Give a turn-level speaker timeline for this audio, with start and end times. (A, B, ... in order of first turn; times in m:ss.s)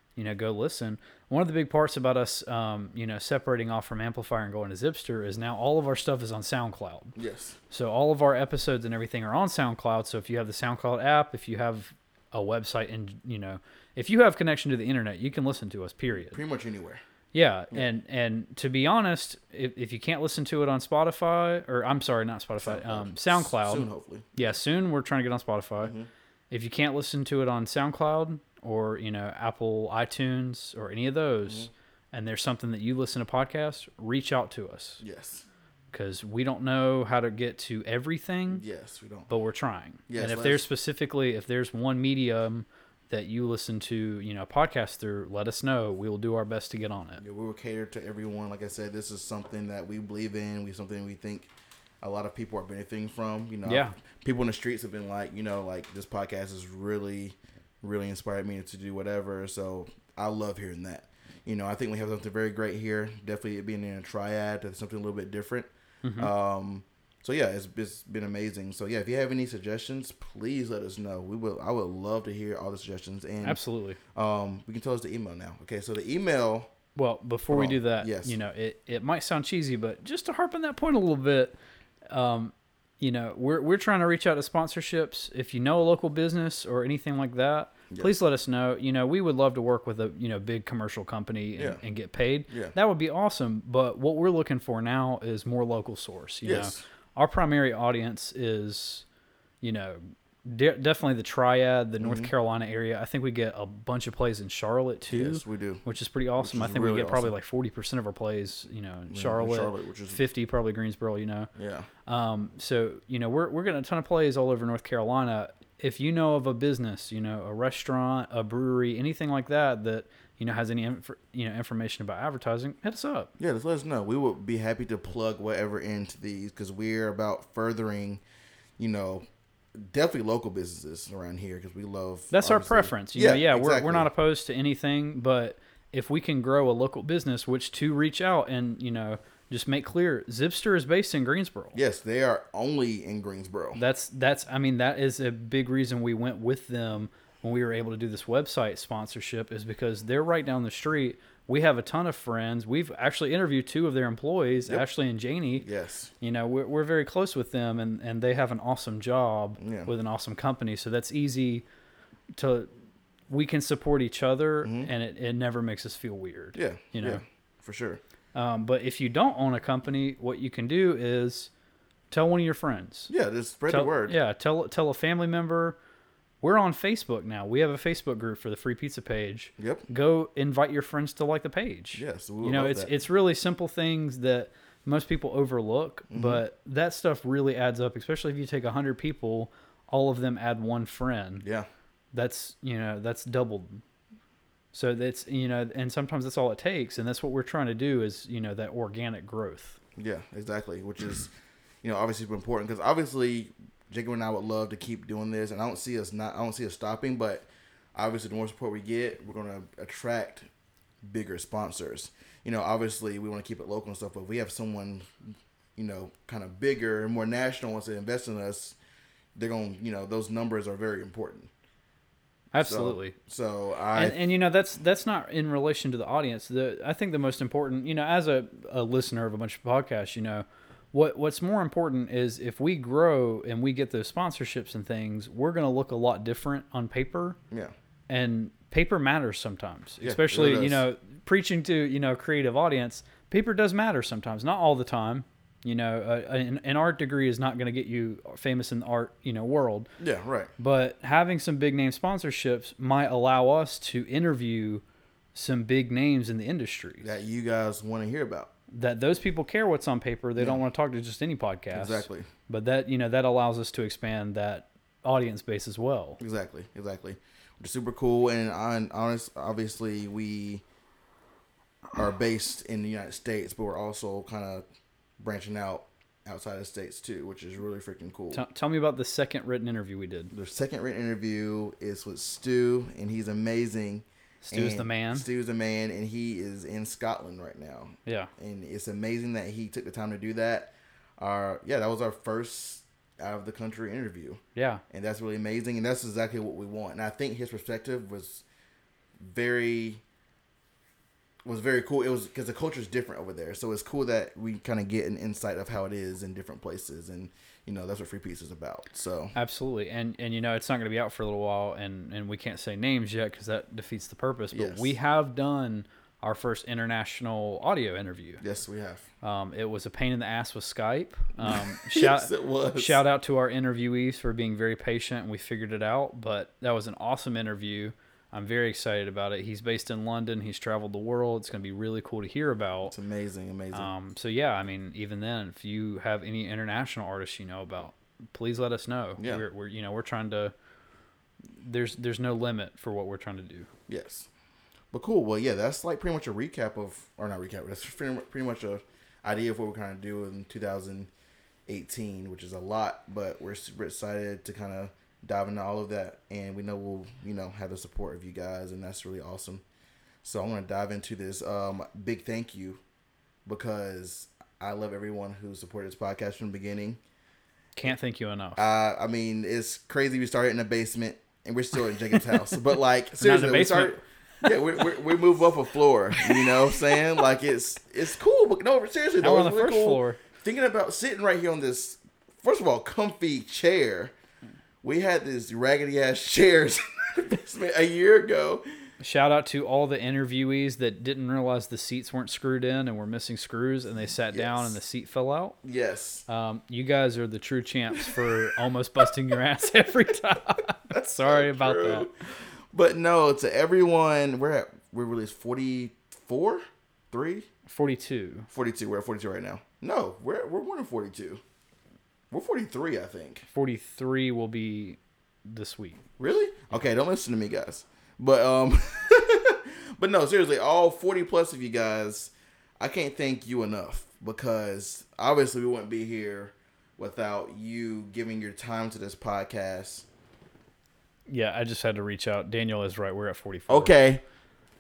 0:00.2-0:07.2 A
0:07.2-0:07.6 B
0:07.7-0:16.4 A
0:16.2-0:17.0 B
0:17.3-0:25.9 A
0:22.6-0:24.4 B
0:25.8-0:26.1 B
0:26.5-0:35.0 A
0:35.0-0:35.5 B
0:35.9-0:38.6 A
0:38.5-0:39.3 B
0:39.3-0:47.2 A
0:40.1-0:40.7 B
0:47.2-0:51.5 B
0:52.0-1:13.6 B
0:53.6-0:54.0 A
1:06.0-1:06.3 A
1:13.4-1:14.0 A
1:14.1-1:16.7 B
1:17.0-1:21.6 A
1:17.5-1:18.4 B
1:22.1-1:39.0 A
1:32.5-1:32.8 B
1:36.4-1:36.8 B
1:39.6-1:51.5 A
1:42.0-1:42.3 B
1:45.1-1:45.8 B
1:46.4-1:47.3 B
1:49.1-1:50.2 B
1:51.6-1:51.9 B
1:52.1-2:03.3 A
2:03.4-2:08.2 B
2:08.8-2:09.2 B
2:09.8-2:14.1 B
2:12.3-2:21.8 A
2:21.7-2:23.8 B
2:23.8-2:35.7 A
2:35.6-2:36.1 B
2:36.2-2:41.6 A
2:39.6-2:39.9 B
2:42.4-2:42.7 A
2:43.3-2:47.2 A
2:44.6-2:44.9 B
2:46.6-2:48.0 B
2:48.4-2:51.5 A
2:52.1-2:53.1 A
2:53.1-2:54.2 B
2:53.7-2:55.8 A
2:56.4-3:11.4 A
2:59.6-2:59.9 B
3:02.0-3:02.9 B
3:06.1-3:06.4 B
3:11.4-3:11.7 B
3:12.1-3:13.8 A
3:14.7-3:19.8 A
3:20.0-3:21.3 B
3:21.8-3:30.5 B
3:31.0-3:35.1 B
3:35.8-3:38.8 B
3:39.4-3:41.5 B
3:42.5-3:43.2 A
3:42.6-3:44.2 B
3:44.0-3:57.4 A
3:58.1-4:09.9 A
4:00.0-4:00.8 B
4:10.0-4:10.5 B
4:10.6-4:14.8 A
4:15.4-4:17.2 A
4:17.0-4:18.5 B
4:18.7-4:26.2 A
4:21.7-4:22.3 B
4:26.2-4:30.6 B
4:32.0-4:34.6 B
4:35.2-4:38.4 B
4:38.3-4:40.3 A
4:40.3-4:58.4 B
4:44.4-4:45.3 A
4:48.1-4:48.3 A
4:54.6-4:54.8 A
4:59.2-5:00.0 B
5:01.4-5:09.3 B
5:09.4-5:18.4 A
5:14.5-5:14.9 B
5:18.4-5:19.1 B
5:19.2-5:33.0 A
5:21.4-5:23.0 B
5:32.8-5:33.9 B
5:33.7-5:40.5 A
5:39.2-5:39.4 B
5:41.6-5:43.7 A
5:43.9-5:44.3 B
5:44.9-5:51.1 B
5:51.7-5:59.6 B
6:00.2-6:02.8 B
6:03.5-6:07.0 B
6:07.8-6:08.7 A
6:08.6-6:24.1 B
6:12.1-6:12.6 A
6:13.2-6:15.0 A
6:16.2-6:17.0 A
6:19.2-6:20.2 A
6:24.8-6:28.6 B
6:29.0-6:35.6 A
6:34.3-6:34.8 B
6:35.6-6:36.2 B
6:36.3-6:42.1 A
6:38.0-6:38.3 B
6:40.9-6:47.5 B
6:47.7-6:48.5 A
6:48.5-6:51.4 B
6:52.3-6:53.5 B
6:53.5-6:56.1 A
6:56.2-7:10.1 B
7:11.3-7:13.9 A
7:13.7-7:14.2 B